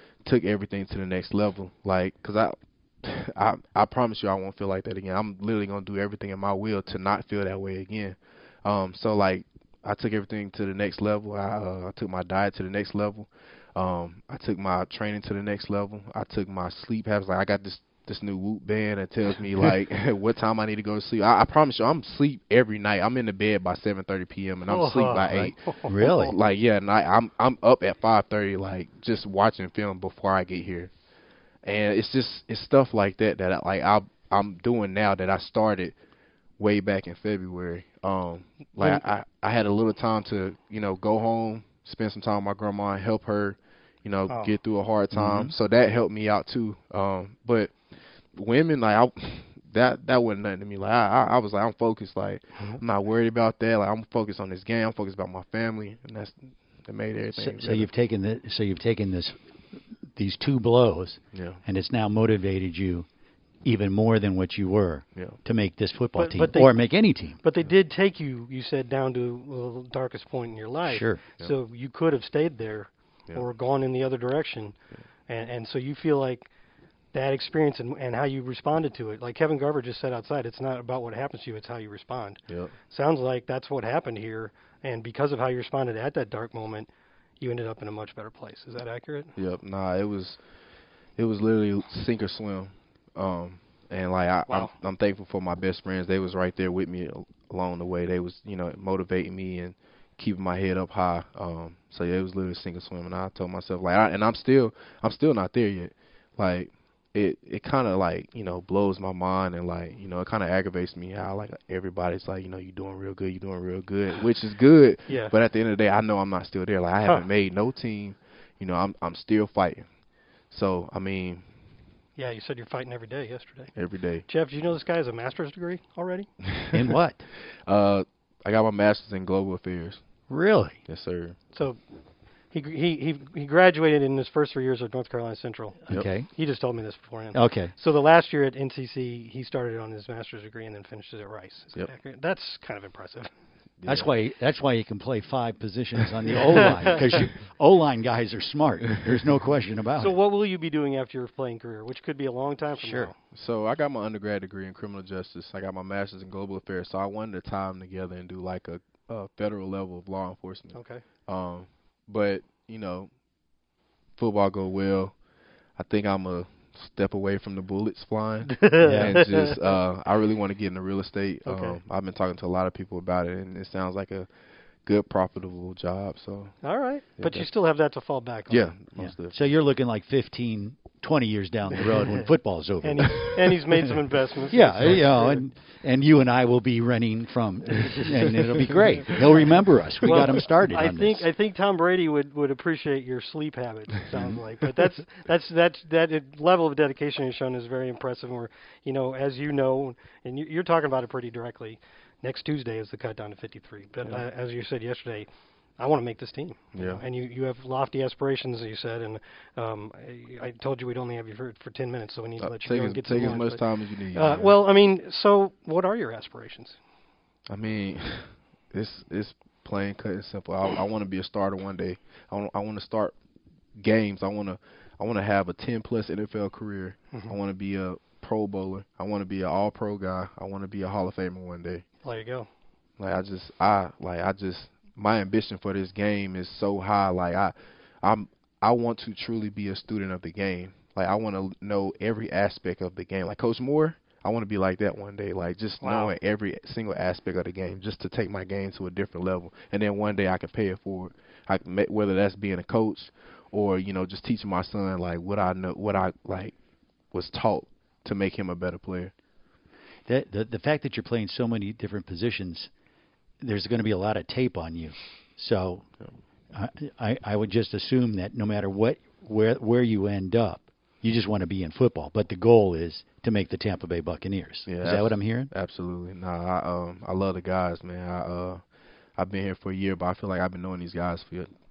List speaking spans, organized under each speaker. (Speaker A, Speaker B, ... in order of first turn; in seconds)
Speaker A: 0.2-30.9, 31.6-36.0, 36.6-47.7, 48.3-57.9, 61.3-61.6, 82.5-82.7, 89.3-90.4, 91.2-119.8, 120.5-121.4, 123.7-124.2, 126.5-126.8, 127.7-130.0, 130.9-131.3, 143.8-144.1, 153.2-163.1, 164.2-165.1, 165.8-174.3, 174.8-176.6, 177.2-177.4, 178.5-179.4, 206.7-207.0, 212.4-214.6, 217.5-223.1, 223.8-231.8, 233.0-256.5, 257.1-259.1, 274.7-278.6, 279.2-281.5
Speaker B: 24.7-26.1, 44.3-44.5, 66.2-66.8, 67.4-74.8, 75.3-76.5, 77.1-86.9, 87.4-89.3, 94.5-94.7, 115.1-115.3, 122.2-123.7, 124.3-126.3, 131.5-131.8, 132.5-143.3, 146.3-147.2, 150.0-153.1, 160.7-161.0, 168.5-169.6, 171.4-171.8, 176.6-178.7, 182.8-185.4, 190.0-205.3, 205.8-216.8, 232.0-232.5, 245.8-246.1
Speaker C: 25.3-26.3, 45.1-45.5, 57.3-59.4, 60.1-63.0, 63.6-67.4, 70.8-71.2, 126.7-127.2, 130.3-130.8, 135.9-136.3, 137.3-137.7, 143.8-150.1, 152.8-153.1, 168.8-169.2, 179.0-183.6, 184.5-191.3, 260.1-262.7, 263.4-265.9, 266.5-275.5